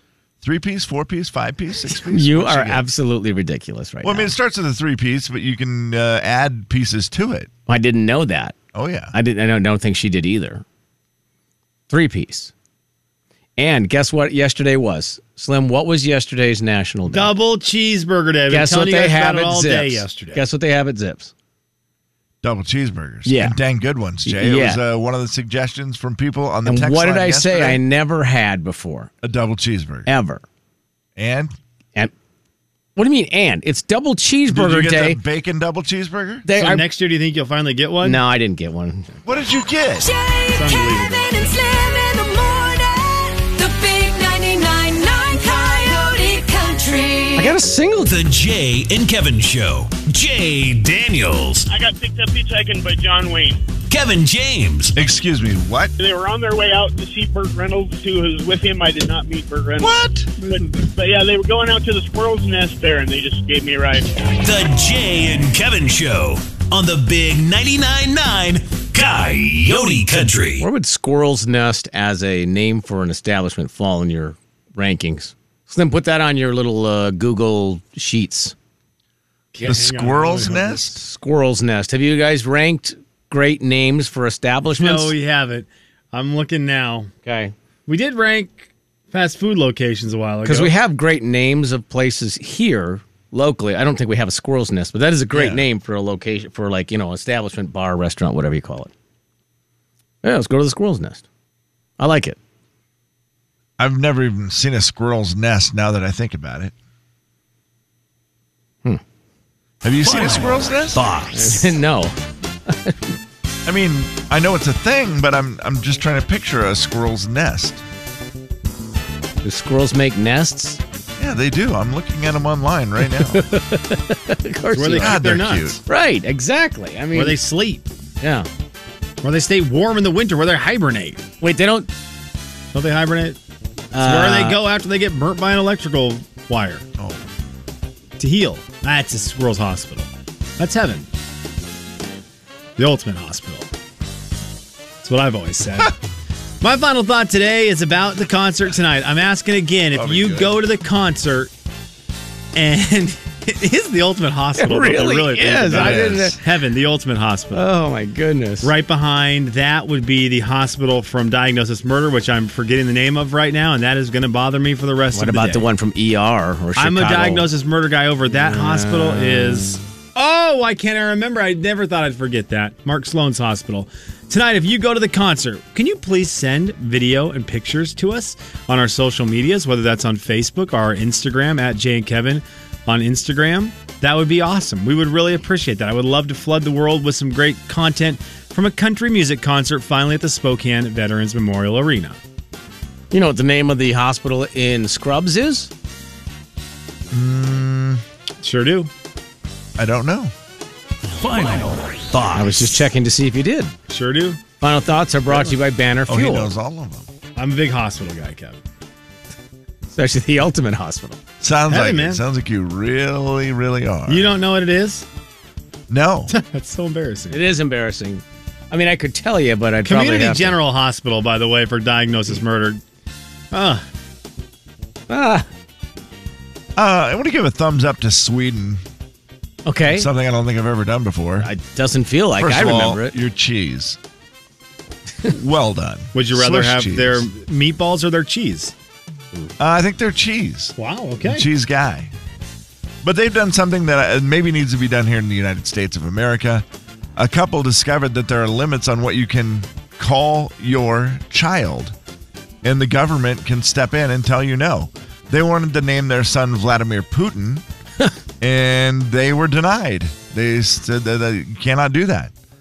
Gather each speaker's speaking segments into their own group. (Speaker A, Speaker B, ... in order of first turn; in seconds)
Speaker A: 0.4-2.9, 4.0-7.5, 8.7-9.1, 22.4-27.8, 29.2-30.1, 31.2-31.5, 34.5-36.5, 39.2-40.1, 55.0-55.9, 59.8-60.4, 79.6-81.0, 95.3-95.7, 103.8-106.7, 109.8-111.0, 113.7-117.8, 121.2-123.5, 124.9-125.8, 137.0-137.2, 149.9-150.6, 155.7-156.4, 197.1-198.0, 199.8-200.3, 206.1-207.1, 211.4-214.4, 215.9-216.4, 226.8-228.8, 229.9-231.5, 232.3-234.0, 235.2-237.3, 239.6-242.1, 243.0-246.7, 247.2-251.9, 252.6-257.6, 258.4-262.3
Speaker B: 1.9-4.3, 7.7-8.6, 9.1-10.6, 11.9-12.5, 13.6-17.3, 18.5-21.3, 23.3-23.6, 24.2-24.8, 26.6-29.1, 30.1-30.4, 33.0-35.2, 36.5-36.9, 38.0-39.1, 47.4-48.1, 70.6-78.5, 80.4-85.2, 87.3-87.5, 90.5-98.9, 100.2-101.2, 102.0-102.4, 111.3-112.2, 112.7-113.1, 119.4-120.8, 123.0-125.2, 125.9-127.4, 128.2-128.5, 131.4-131.9, 133.9-134.6, 154.6-156.4, 157.5-158.7, 165.1-167.5, 168.4-169.7, 193.1-195.7, 202.3-203.7, 204.6-206.5, 209.9-211.2, 217.3-220.6, 225.1-225.5, 229.7-230.1, 231.4-233.2
Speaker C: 17.1-20.4, 36.5-38.2, 40.5-41.3, 79.5-80.8, 84.7-87.1, 87.9-90.7, 124.7-125.8, 127.1-127.9, 129.2-131.2, 132.7-133.4, 134.0-136.9, 138.2-141.1, 142.8-143.7, 145.0-146.0, 146.6-151.5, 152.6-157.7, 158.6-165.7, 166.8-192.2, 198.4-198.9, 203.9-204.4, 207.4-208.6, 211.7-212.2, 214.1-215.1, 216.3-217.4, 219.8-222.8, 223.5-223.8, 236.1-238.7, 240.8-241.5
Speaker D: 40.0-47.5
Speaker E: 48.0-51.7, 53.9-55.0, 64.4-70.7, 110.0-111.7, 201.1-202.9
Speaker F: 51.7-53.6, 56.0-64.1